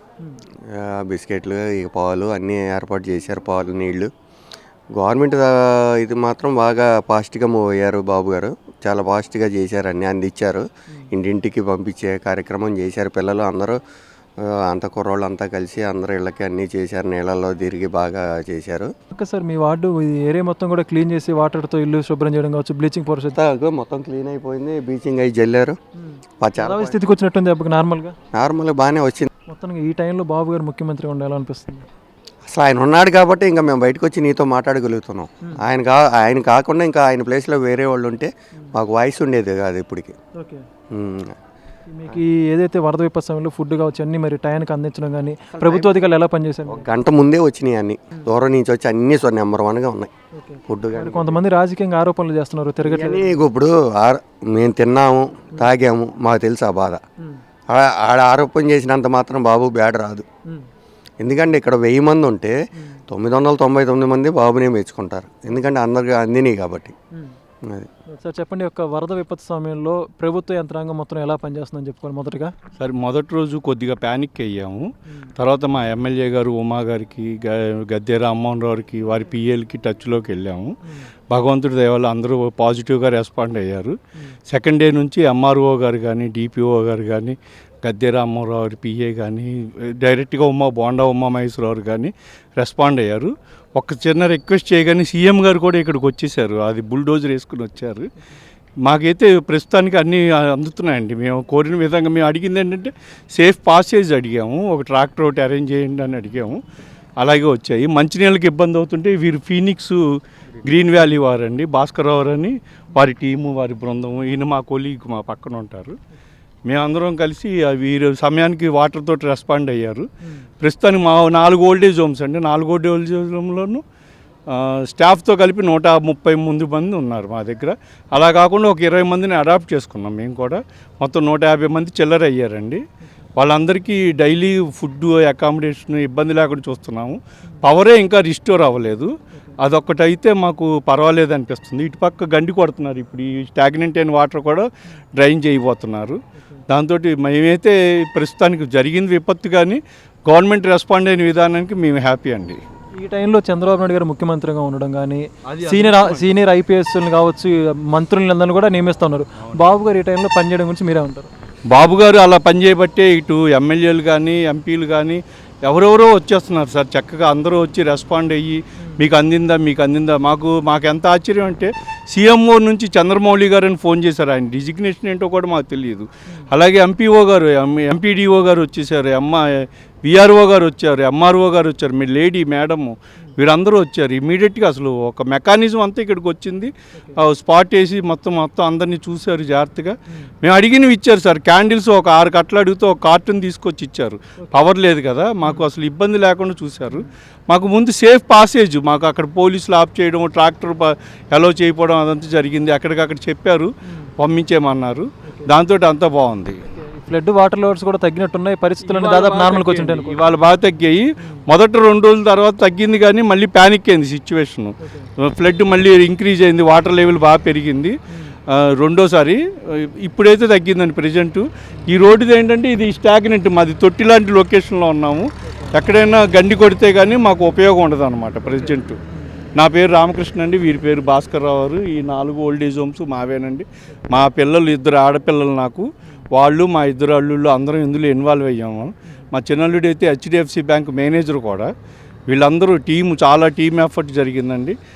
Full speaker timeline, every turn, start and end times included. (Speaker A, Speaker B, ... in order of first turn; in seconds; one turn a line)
Speaker A: 0.7-4.1
Speaker A: 5.0-13.8
Speaker A: 14.4-18.9
Speaker B: 19.1-23.4
Speaker A: 23.3-25.8
Speaker B: 26.0-28.1
Speaker A: 26.4-27.0
Speaker A: 28.3-29.3
Speaker B: 29.5-31.9
Speaker A: 32.5-40.1
Speaker B: 40.4-40.6
Speaker A: 40.9-41.3
Speaker B: 41.9-46.8
Speaker A: 45.5-46.0
Speaker A: 46.7-50.1
Speaker B: 50.3-53.3
Speaker A: 50.7-51.4
Speaker A: 52.8-57.0
Speaker A: 57.7-60.2
Speaker A: 61.2-62.5
Speaker A: 63.1-66.9
Speaker B: 68.1-72.5
Speaker C: 72.8-80.7
Speaker C: 81.3-84.0
Speaker C: 84.5-98.1
Speaker C: 98.8-106.6
Speaker C: 107.2-110.0
Speaker C: 110.6-116.0
Speaker C: 116.7-120.1
Speaker C: 120.6-123.8
Speaker C: 124.5-132.8
Speaker C: 133.4-146.2
Speaker C: 146.7-152.6
Speaker B: 153.0-161.3
Speaker C: 155.5-156.3
Speaker C: 161.7-206.6
Speaker B: 206.7-210.2
Speaker C: 208.8-217.9
Speaker C: 218.5-229.0
Speaker B: 225.4-225.7
Speaker B: 228.6-229.2
Speaker C: 229.6-241.7
Speaker C: 242.3-244.8